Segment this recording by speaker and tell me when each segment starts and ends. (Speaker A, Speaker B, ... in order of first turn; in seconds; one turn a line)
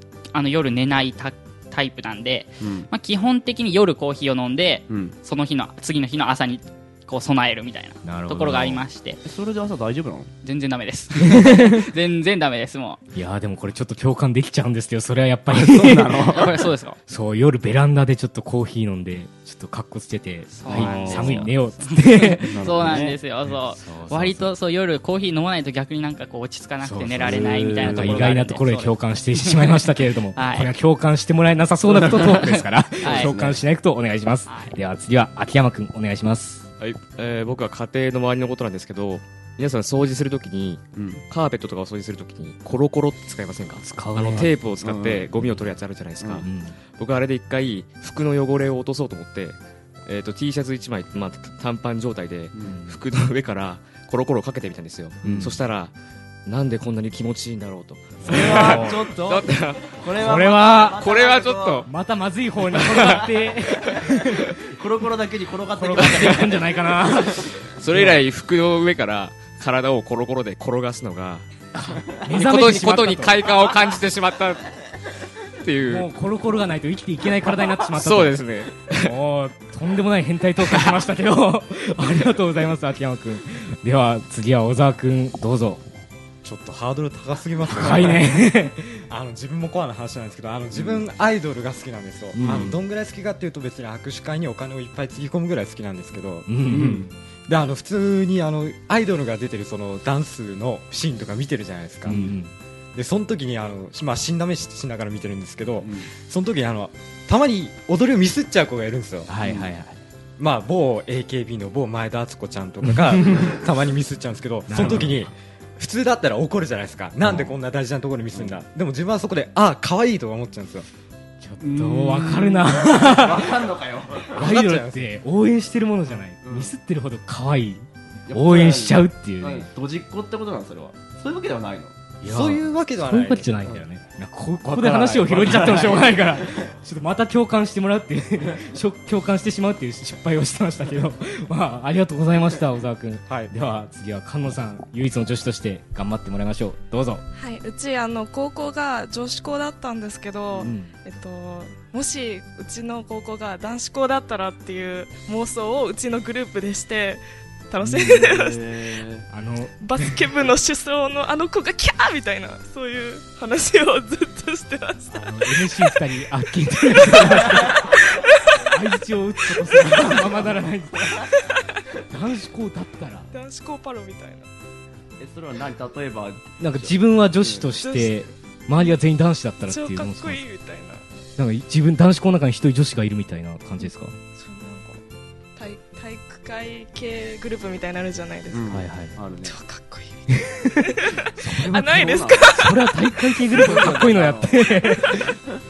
Speaker A: 0.3-9.2
Speaker B: 2.6-2.9
Speaker B: 4.9-5.2
Speaker C: 8.0-8.8
Speaker B: 9.2-10.3
Speaker A: 10.4-13.0
Speaker C: 11.3-11.8
Speaker C: 13.1-16.2
Speaker B: 15.5-16.5
Speaker A: 16.3-17.0
Speaker C: 17.1-22.8
Speaker A: 20.5-29.8
Speaker B: 20.7-21.5
Speaker B: 22.4-23.2
Speaker C: 23.4-24.5
Speaker C: 26.8-36.7
Speaker B: 27.3-28.9
Speaker A: 30.4-30.7
Speaker B: 31.9-32.4
Speaker A: 32.2-33.3
Speaker B: 33.0-33.6
Speaker A: 34.5-34.8
Speaker D: 36.8-60.0
Speaker B: 41.0-41.2
Speaker C: 43.8-44.5
Speaker B: 44.8-45.6
Speaker C: 46.4-46.8
Speaker C: 52.6-53.0
Speaker C: 55.2-55.6
Speaker B: 58.2-61.9
Speaker C: 58.2-59.0
Speaker C: 60.2-61.0
Speaker D: 61.0-61.9
Speaker C: 61.9-64.6
Speaker B: 64.7-67.4
Speaker C: 65.7-68.1
Speaker D: 67.8-71.5
Speaker C: 71.7-73.5
Speaker D: 72.3-74.7
Speaker D: 75.6-76.1
Speaker C: 75.9-85.8
Speaker D: 77.8-79.1
Speaker E: 86.4-96.5
Speaker C: 87.7-88.8
Speaker B: 90.7-91.0
Speaker C: 92.3-92.8
Speaker B: 92.4-92.7
Speaker C: 96.5-97.1
Speaker B: 96.7-97.1
Speaker E: 97.5-102.3
Speaker C: 102.1-102.5
Speaker E: 103.0-109.3
Speaker B: 105.8-106.1
Speaker C: 109.3-110.0
Speaker B: 109.4-109.7
Speaker E: 110.4-120.9
Speaker C: 113.2-113.5
Speaker C: 114.7-115.2
Speaker B: 114.8-115.1
Speaker C: 121.4-123.6
Speaker B: 121.6-124.3
Speaker C: 124.3-129.7
Speaker E: 124.4-125.1
Speaker B: 126.4-126.7
Speaker B: 128.3-132.0
Speaker C: 132.2-147.2
Speaker E: 132.2-133.6
Speaker B: 134.7-136.6
Speaker E: 143.3-143.5
Speaker F: 147.3-158.7
Speaker C: 150.6-150.9
Speaker C: 157.8-158.3
Speaker B: 158.1-159.3
Speaker C: 159.3-160.2
Speaker F: 159.8-166.0
Speaker C: 165.1-167.8
Speaker F: 166.9-168.8
Speaker C: 168.7-171.2
Speaker F: 169.7-170.2
Speaker B: 169.9-170.6
Speaker F: 171.3-171.8
Speaker C: 172.1-173.3
Speaker F: 173.3-174.5
Speaker B: 175.2-177.7
Speaker C: 176.6-180.4
Speaker F: 177.8-179.0
Speaker F: 179.7-181.1
Speaker C: 181.4-184.1
Speaker F: 184.3-185.0
Speaker F: 185.6-188.8
Speaker B: 188.5-189.6
Speaker C: 188.7-189.1
Speaker F: 189.4-192.9
Speaker C: 190.3-190.7
Speaker C: 191.4-195.3
Speaker B: 191.7-192.5
Speaker B: 193.5-194.7